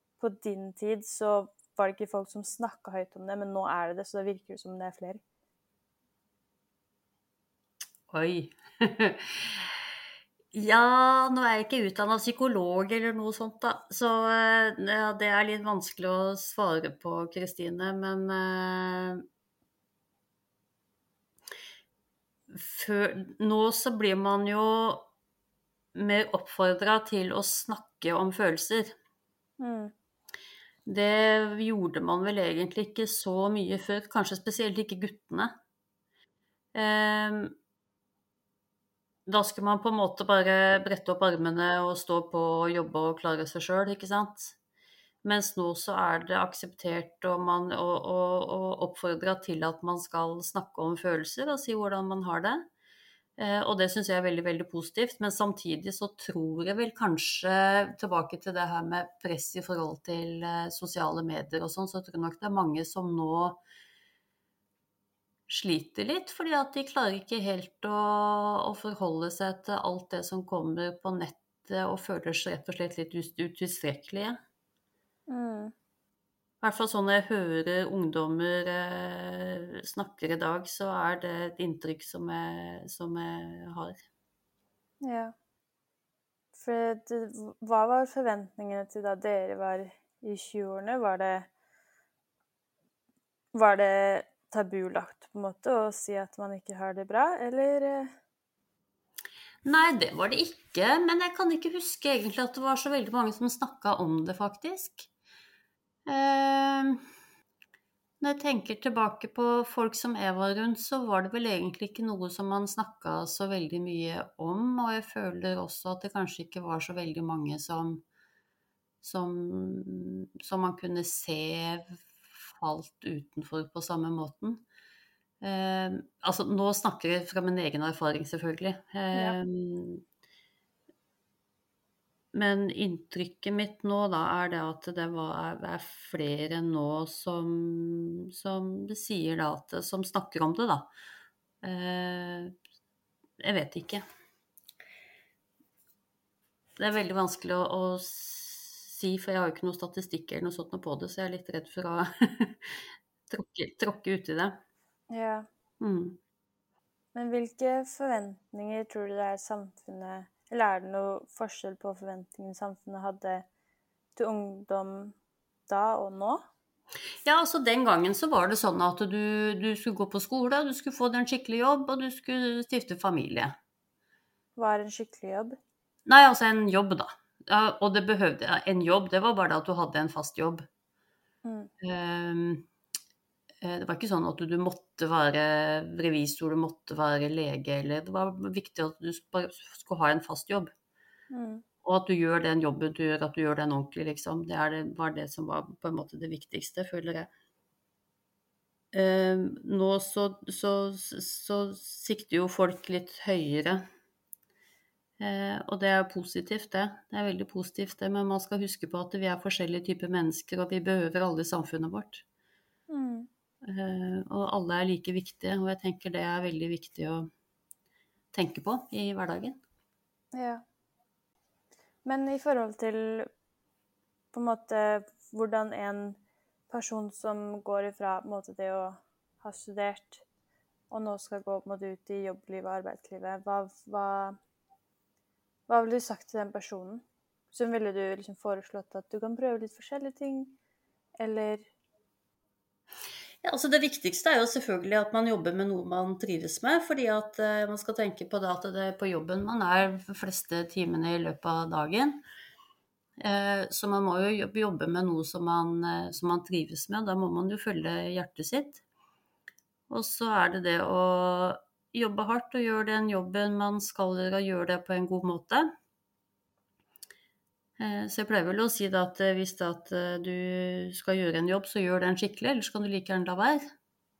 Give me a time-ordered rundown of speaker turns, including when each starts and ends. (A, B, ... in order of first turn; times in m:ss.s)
0:00.2-0:05.2 A
0:08.1-0:09.7 B
0:10.5-0:19.2 B
0:22.5-0:25.1 B
0:25.9-0:28.9 B
0:29.6-0:29.9 A
0:30.8-0:35.5 B
0:36.7-0:37.5 B
0:39.3-0:44.6 B
0:45.2-0:52.6 B
0:53.4-1:03.6 B
1:05.5-1:14.4 B
1:15.3-1:15.7 A
1:16.6-1:23.9 B
1:25.0-1:25.3 A
1:26.5-1:31.5 A
1:33.5-1:38.1 A
1:39.6-1:45.1 B
1:46.0-1:47.0 B
1:48.2-1:58.0 B
1:59.0-2:04.6 B
2:05.4-2:10.0 B
2:09.1-2:09.4 A
2:12.3-2:20.9 B
2:21.6-2:22.5 B
2:23.4-2:24.0 B
2:26.8-2:34.6 B
2:35.1-2:35.5 A
2:35.8-2:36.2 B
2:37.1-2:43.4 A
2:44.1-2:45.2 A
2:45.7-2:46.4 A
2:47.2-2:53.5 B
2:54.6-2:55.5 A
2:56.1-3:00.6 B
3:01.4-3:01.7 A
3:01.8-3:02.6 B
3:03.6-3:10.7 B
3:11.3-3:11.6 A
3:11.8-3:17.3 B
3:18.9-3:23.8 B
3:25.2-3:32.2 B
3:32.9-3:33.3 A
3:33.6-3:37.3 B
3:38.3-3:39.6 B
3:40.3-3:40.6 A
3:42.0-3:43.3 A
3:44.3-3:50.2 A
3:50.9-3:54.3 A
3:55.7-4:00.5 A
4:01.2-4:01.7 A
4:03.4-4:12.2 B
4:13.2-4:18.8 B
4:19.9-4:25.7 B
4:27.8-4:33.6 B